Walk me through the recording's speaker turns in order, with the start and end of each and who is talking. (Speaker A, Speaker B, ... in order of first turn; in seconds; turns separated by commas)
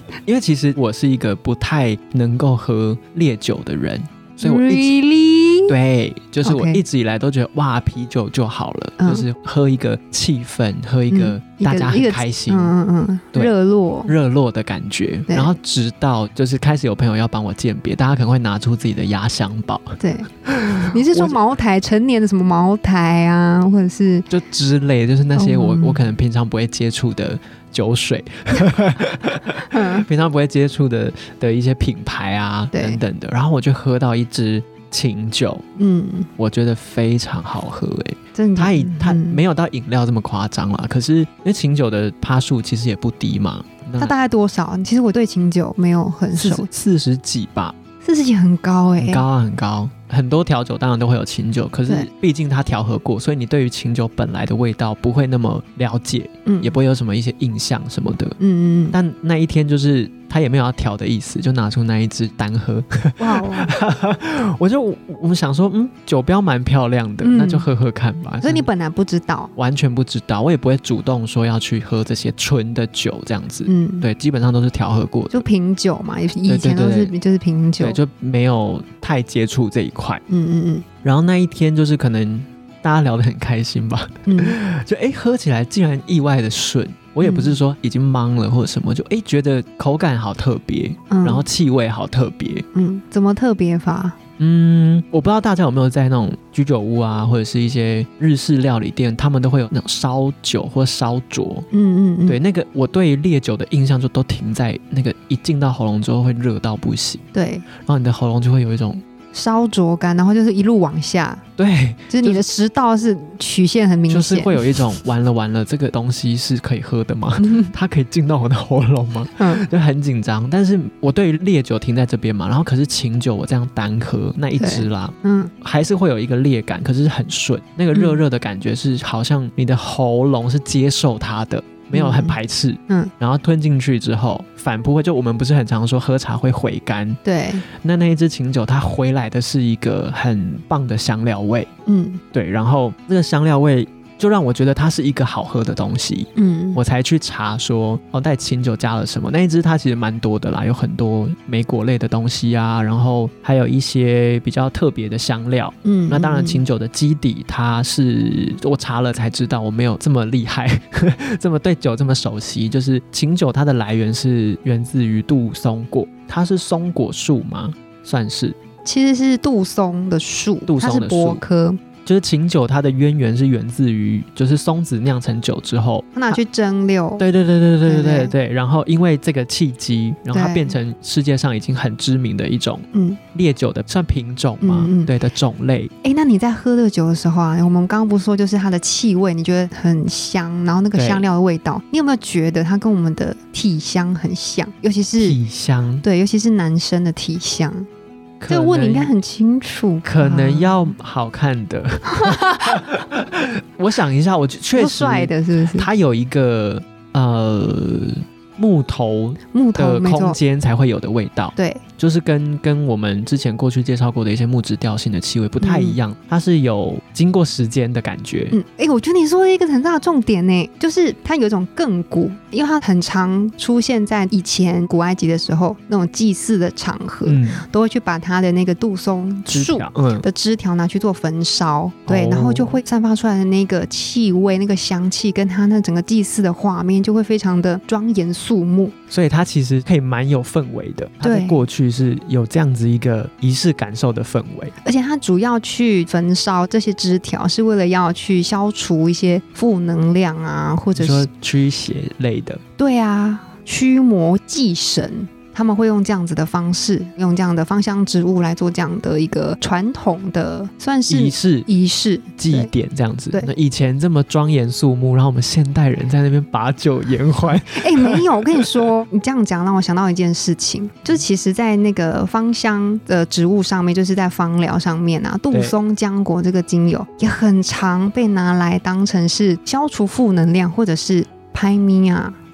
Speaker A: 0.2-4.9, Speaker B: 4.4-5.8, Speaker A: 5.7-12.7, Speaker B: 6.4-6.8, Speaker B: 9.0-9.3, Speaker B: 11.1-14.1, Speaker A: 14.1-21.4, Speaker B: 20.0-20.3, Speaker B: 20.9-24.3, Speaker A: 24.3-35.6, Speaker B: 25.4-26.1, Speaker B: 29.7-30.1, Speaker B: 32.7-33.0, Speaker B: 35.8-36.3, Speaker A: 36.4-44.1, Speaker B: 38.4-39.4, Speaker B: 44.0-46.7, Speaker A: 46.3-47.7, Speaker B: 48.0-49.2, Speaker A: 49.0-58.4, Speaker B: 56.5-56.8, Speaker B: 58.4-59.0, Speaker A: 58.9-68.7, Speaker B: 63.2-63.7, Speaker B: 67.2-67.7, Speaker B: 68.4-69.5, Speaker A: 69.6-75.5, Speaker B: 73.7-74.1, Speaker B: 75.3-78.0, Speaker A: 76.5-77.1, Speaker A: 77.8-80.2, Speaker B: 80.3-80.8, Speaker A: 81.0-92.7, Speaker B: 84.3-84.6, Speaker B: 87.2-87.6, Speaker B: 91.1-91.5, Speaker B: 92.7-94.2, Speaker A: 94.4-101.7, Speaker B: 101.7-102.4, Speaker A: 102.3-107.2, Speaker B: 107.3-107.7, Speaker A: 107.8-109.0, Speaker B: 109.3-111.4, Speaker A: 111.6-112.4, Speaker B: 112.1-114.8, Speaker A: 114.1-137.2, Speaker B: 117.4-117.7, Speaker B: 119.4-119.7, Speaker B: 124.6-125.5, Speaker B: 127.9-128.2, Speaker B: 131.9-132.4, Speaker B: 137.2-137.6, Speaker A: 137.8-141.7, Speaker B: 141.9-142.2, Speaker A: 142.3-168.6, Speaker B: 146.4-146.8, Speaker B: 155.8-156.6, Speaker B: 168.8-171.8, Speaker A: 170.7-171.4, Speaker A: 172.1-176.4, Speaker B: 176.1-177.2, Speaker A: 177.2-185.9, Speaker B: 177.8-178.3, Speaker B: 180.3-180.8, Speaker B: 182.9-183.2, Speaker B: 184.6-185.1, Speaker B: 186.0-195.4, Speaker A: 190.9-191.2, Speaker A: 195.2-196.1, Speaker B: 196.0-197.9, Speaker A: 198.4-199.1, Speaker B: 198.5-200.8, Speaker A: 200.0-218.6, Speaker B: 202.1-202.8, Speaker B: 204.8-205.9, Speaker B: 209.5-210.4, Speaker B: 211.6-211.8, Speaker B: 215.6-216.0, Speaker B: 218.5-238.9, Speaker A: 227.2-227.7, Speaker A: 229.5-230.3, Speaker A: 232.1-232.8, Speaker A: 239.1-244.8, Speaker B: 241.2-241.6, Speaker B: 244.8-251.3, Speaker A: 250.9-252.6, Speaker B: 252.8-262.7, Speaker A: 261.1-261.7, Speaker A: 262.4-268.8, Speaker B: 267.8-282.4